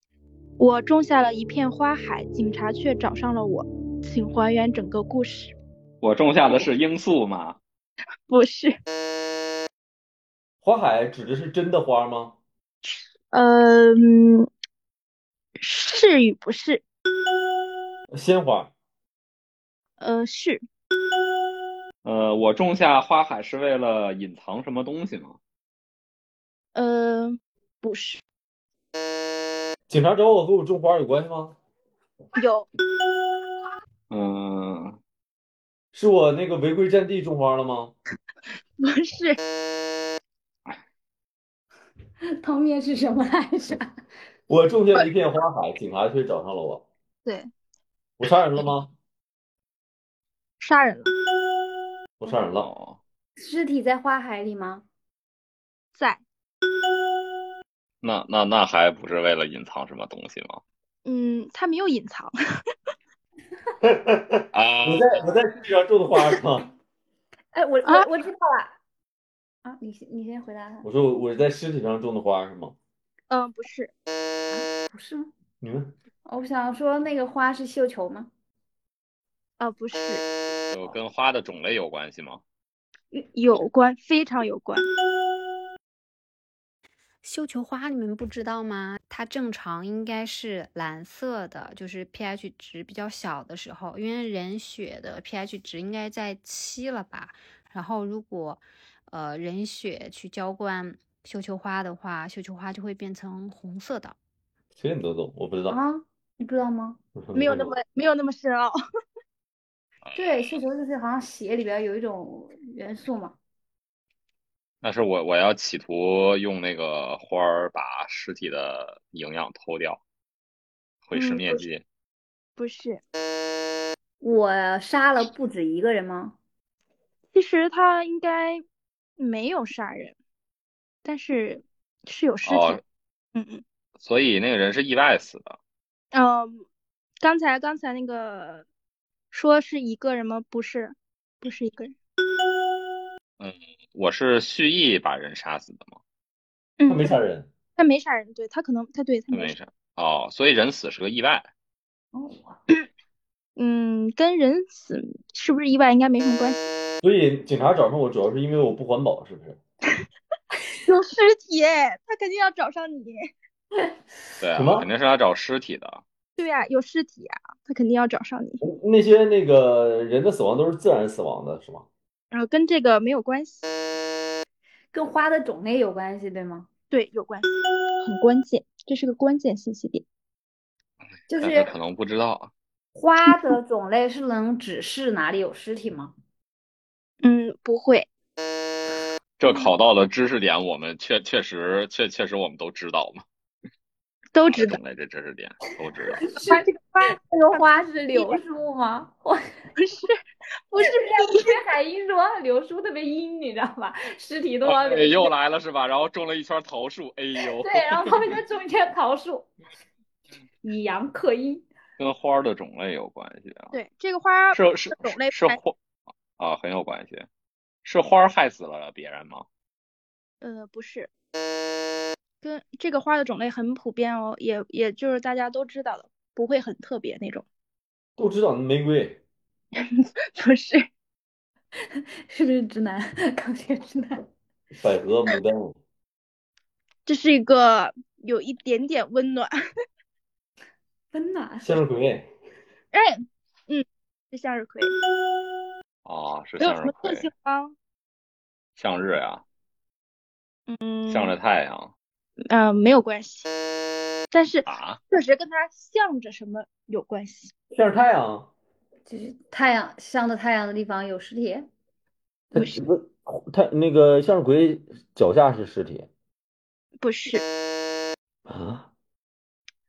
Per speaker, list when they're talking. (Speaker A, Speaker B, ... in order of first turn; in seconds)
Speaker A: 0.6-5.5, 8.3-8.8, 12.8-14.5, 15.6-16.8, 20.0-20.6, 26.7-28.2, 32.4-32.7, 38.8-39.4, 50.6-51.1, 55.9-56.2, 61.0-62.4, 67.8-68.1, 73.3-73.9, 79.6-80.2, 83.1-84.8, 107.3-108.7, 121.1-121.7, 122.6-123.0, 127.3-128.6, 129.2-130.2, 131.0-132.8, 133.3-133.6, 136.1-136.6, 137.2-138.6, 139.3-141.9, 146.8-147.2, 147.8-149.6, 153.6-156.7, 160.8-163.3, 166.4-168.6, 172.3-173.6, 176.9-180.0, 181.3-181.7, 187.2-188.1, 189.4-189.7, 194.3-194.8, 196.3-198.4, 199.8-200.1, 200.7-201.6, 213.7-215.6, 220.4-221.1, 222.4-227.4, 229.8-230.8, 237.1-239.5, 242.9-244.9, 246.6-247.7, 250.7-251.3, 252.5-253.5, 254.3-257.5, 267.0-267.4
Speaker B: 6.0-7.6, 22.0-25.4, 34.1-35.0, 52.6-53.0, 58.0-60.6, 64.5-65.4, 80.7-82.4, 110.1-110.6, 114.8-120.0, 121.0-121.8, 132.4-132.8, 134.0-135.6, 143.4-146.0, 149.3-151.5, 164.4-166.0, 181.4-182.5, 189.4-193.2, 194.5-196.2, 204.6-208.3, 212.0-213.7, 214.5-215.8, 216.4-217.3, 217.8-219.4, 246.1-247.3, 248.8-249.4, 251.1-251.9, 254.7-255.0
Speaker C: 10.6-12.4, 18.1-18.7, 29.9-31.6, 35.9-37.9, 44.5-46.8, 48.2-48.9, 52.2-52.7, 63.8-66.7, 70.8-72.7, 75.6-75.9, 104.8-105.8, 107.2-107.7, 146.8-147.5, 157.0-159.6, 164.5-164.9, 168.6-171.8, 228.2-229.2, 234.7-235.8, 241.6-242.3, 257.7-258.5, 262.5-266.1, 268.5-268.9
Speaker D: 42.4-43.9, 53.4-54.8, 67.5-68.8, 69.6-70.9, 74.5-75.3, 76.2-78.3, 105.7-107.0, 110.1-113.4, 124.2-126.4, 152.1-152.6, 174.9-176.7, 182.9-186.1, 196.2-199.4, 200.8-205.3, 207.6-209.5, 210.6-211.6, 232.3-234.2, 241.1-241.8, 259.1-261.7
Speaker E: 87.2-104.2